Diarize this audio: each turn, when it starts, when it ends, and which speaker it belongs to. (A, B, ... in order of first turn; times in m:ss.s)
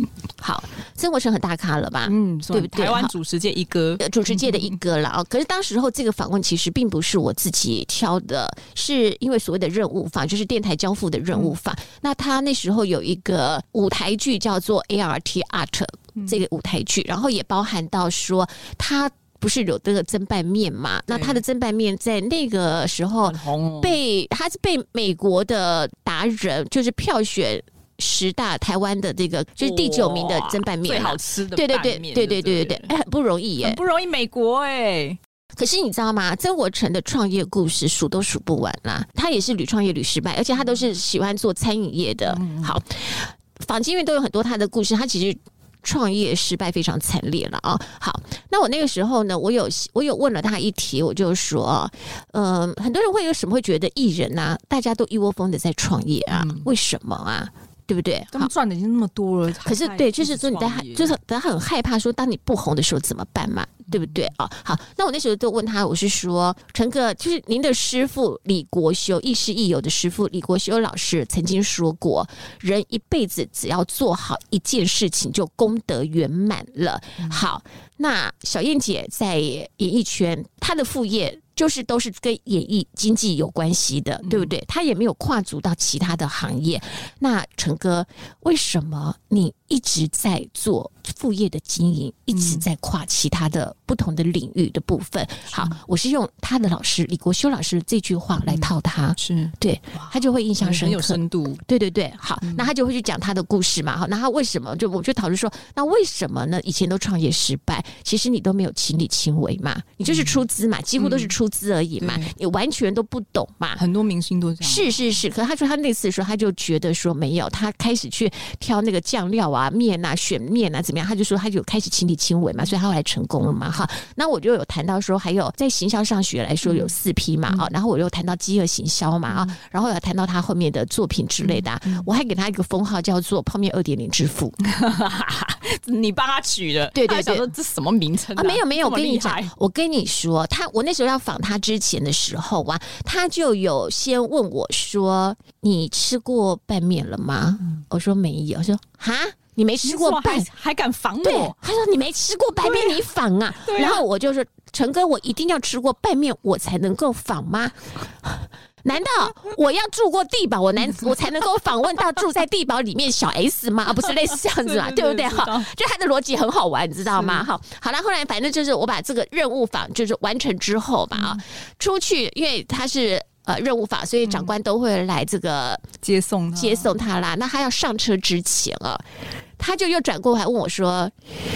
0:00.4-0:03.1 A
0:02.1-0:04.8 B
0:04.0-0:33.8 A
0:21.1-0:21.4 B
0:23.2-0:24.0 B
0:29.6-0:32.9 B
0:33.6-0:35.2 B
0:35.6-0:58.5 A
0:42.3-0:42.8 B
0:56.3-0:56.7 B
0:58.3-1:01.1 B
0:59.6-1:53.8 A
1:24.2-1:24.5 B
1:32.3-1:32.6 B
1:35.5-1:35.8 B
1:38.4-1:41.6 B
1:42.4-1:42.7 B
1:50.1-1:50.4 B
1:51.0-1:51.4 B
1:52.0-1:52.3 B
1:53.8-1:55.0 B
1:54.6-2:14.6 A
2:06.6-2:06.9 B
2:09.3-2:09.5 B
2:11.4-2:12.1 B
2:14.7-2:19.5 B
2:17.0-2:17.5 A
2:18.4-2:30.5 A
2:29.8-2:31.6 B
2:31.2-2:55.8 A
2:32.6-2:33.0 B
2:33.6-2:34.0 B
2:44.5-2:45.7 B
2:47.1-2:47.5 B
2:51.1-2:51.4 B
2:54.2-2:54.6 B
2:56.0-2:57.0 B
2:56.6-2:59.0 A
2:59.6-3:01.1 A